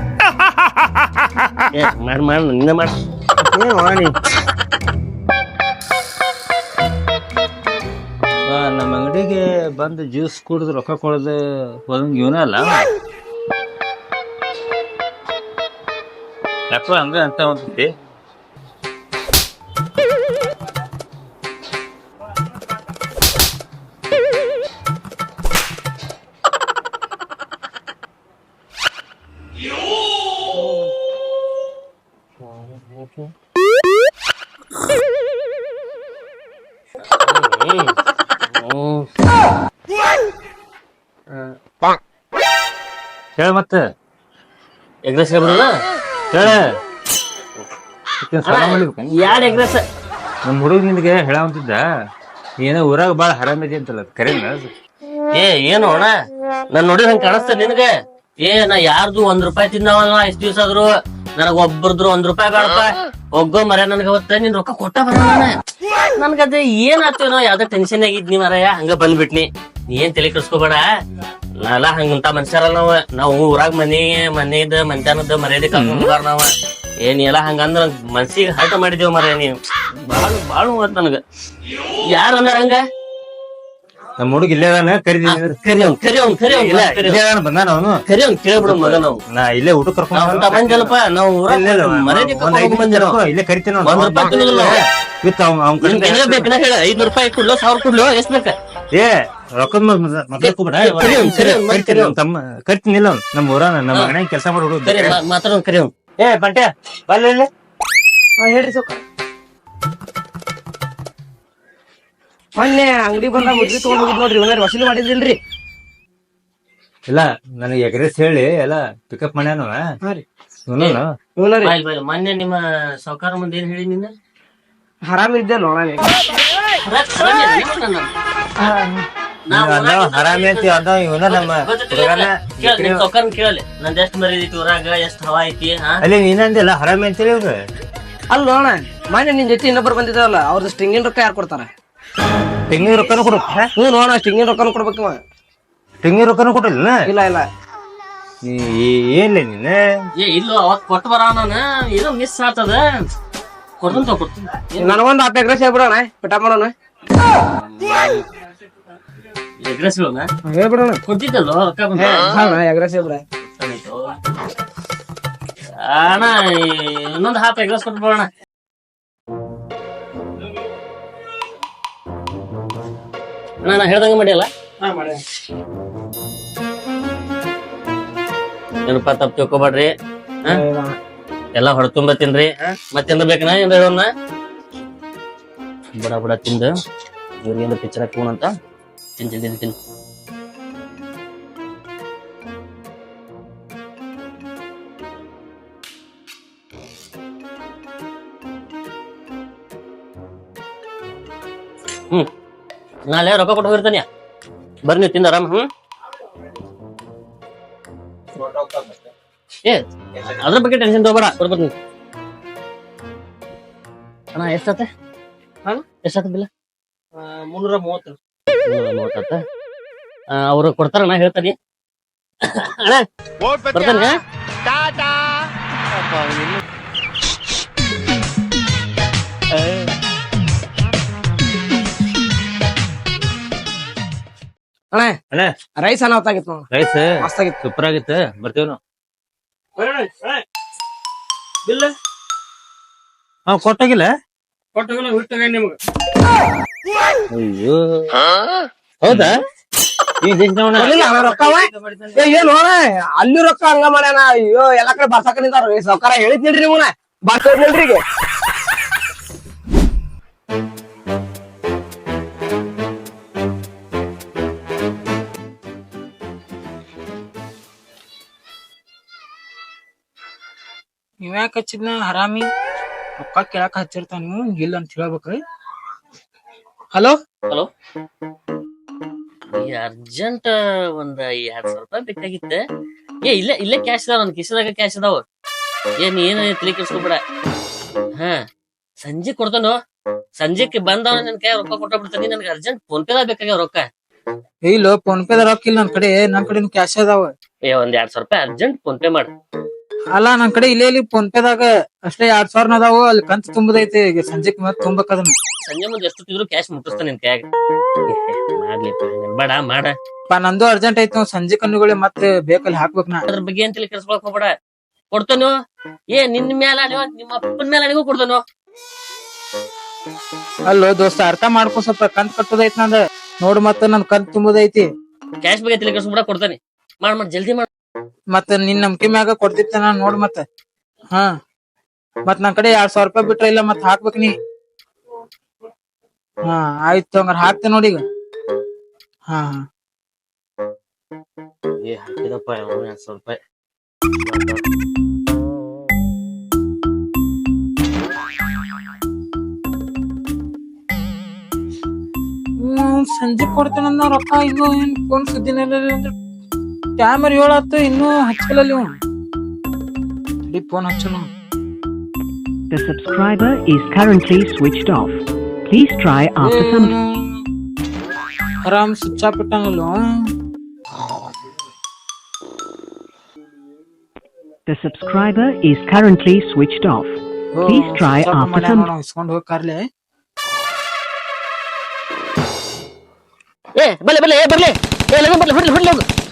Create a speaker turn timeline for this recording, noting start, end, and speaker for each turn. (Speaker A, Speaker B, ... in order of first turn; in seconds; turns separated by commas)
Speaker A: 1.7-3.0, Speaker B: 8.5-11.3, Speaker B: 11.9-12.8, Speaker B: 16.7-17.9, Speaker A: 32.4-33.3, Speaker A: 37.2-39.1, Speaker B: 43.4-43.8, Speaker A: 45.0-45.7, Speaker B: 46.3-46.6, Speaker B: 48.2-49.6, Speaker A: 48.5-49.8, Speaker B: 50.5-51.8, Speaker B: 52.6-54.7, Speaker A: 55.4-56.1, Speaker A: 56.7-57.9, Speaker A: 58.4-65.5, Speaker A: 66.2-70.8, Speaker A: 71.6-76.5, Speaker A: 77.0-79.5, Speaker A: 80.1-81.2, Speaker A: 82.1-82.8, Speaker B: 84.2-85.6, Speaker A: 85.2-87.2, Speaker B: 86.5-88.0, Speaker A: 88.1-89.2, Speaker B: 88.7-90.9, Speaker A: 90.1-93.2, Speaker B: 91.5-96.5, Speaker A: 93.8-94.8, Speaker A: 95.8-98.5, Speaker B: 98.9-105.2, Speaker A: 100.4-102.2, Speaker A: 104.8-105.9, Speaker B: 106.2-107.5, Speaker C: 108.4-109.0, Speaker C: 112.5-115.4, Speaker B: 117.1-119.8, Speaker B: 120.7-121.1, Speaker C: 121.4-121.7, Speaker A: 121.6-124.1, Speaker C: 125.0-126.1, Speaker A: 126.8-128.1, Speaker C: 128.6-129.0, Speaker A: 129.5-130.7, Speaker B: 129.5-133.0, Speaker A: 131.3-136.0, Speaker B: 136.0-137.6, Speaker C: 138.3-141.7, Speaker B: 142.7-143.7, Speaker C: 143.8-145.2, Speaker B: 146.0-147.0, Speaker C: 147.1-147.4, Speaker B: 148.4-149.8, Speaker A: 150.2-153.1, Speaker A: 153.8-155.0, Speaker C: 154.8-156.7, Speaker A: 157.8-158.2, Speaker A: 159.6-160.3, Speaker C: 160.5-161.0, Speaker A: 161.1-162.5, Speaker C: 161.9-163.2, Speaker A: 163.4-164.2, Speaker A: 165.8-168.3, Speaker A: 173.6-174.5, Speaker C: 174.8-175.2, Speaker A: 178.9-179.9, Speaker C: 180.5-181.0, Speaker A: 181.6-184.1, Speaker A: 186.0-186.7, Speaker A: 187.4-188.5, Speaker A: 189.2-189.7, Speaker A: 203.1-204.1, Speaker A: 204.8-205.7, Speaker B: 208.4-209.0, Speaker A: 209.6-211.7, Speaker A: 214.3-214.9, Speaker A: 215.8-216.5, Speaker A: 217.4-218.1, Speaker A: 218.7-219.4, Speaker A: 220.3-221.5, Speaker A: 222.5-223.0, Speaker A: 223.7-224.2, Speaker C: 234.9-235.2, Speaker C: 235.8-236.6, Speaker B: 236.7-237.1, Speaker C: 237.2-237.6, Speaker B: 237.6-238.8, Speaker A: 239.8-240.4, Speaker B: 243.5-244.1, Speaker A: 244.7-245.8, Speaker B: 247.3-248.1, Speaker A: 249.0-249.3, Speaker B: 250.2-251.0, Speaker C: 250.7-258.0, Speaker D: 271.2-272.5, Speaker D: 273.2-275.4, Speaker A: 279.6-282.6, Speaker A: 283.2-285.2, Speaker A: 286.0-287.2, Speaker A: 289.0-289.8, Speaker A: 290.4-293.9, Speaker D: 294.7-297.3, Speaker A: 297.6-299.3, Speaker D: 300.1-305.3, Speaker A: 305.6-307.4, Speaker A: 308.1-309.9, Speaker D: 310.3-313.2, Speaker A: 313.3-314.5, Speaker A: 315.1-315.5, Speaker A: 316.1-318.4, Speaker D: 320.7-324.9, Speaker A: 325.4-327.7, Speaker D: 328.3-330.4, Speaker D: 332.3-334.3, Speaker D: 336.4-338.0, Speaker D: 339.3-339.6, Speaker A: 341.8-343.4, Speaker A: 344.2-344.6, Speaker D: 352.6-356.1, Speaker D: 357.0-358.9, Speaker D: 360.5-361.3, Speaker E: 362.7-366.9, Speaker D: 366.4-367.4, Speaker D: 368.6-370.1, Speaker E: 374.7-378.9, Speaker D: 377.5-379.8, Speaker A: 383.8-386.0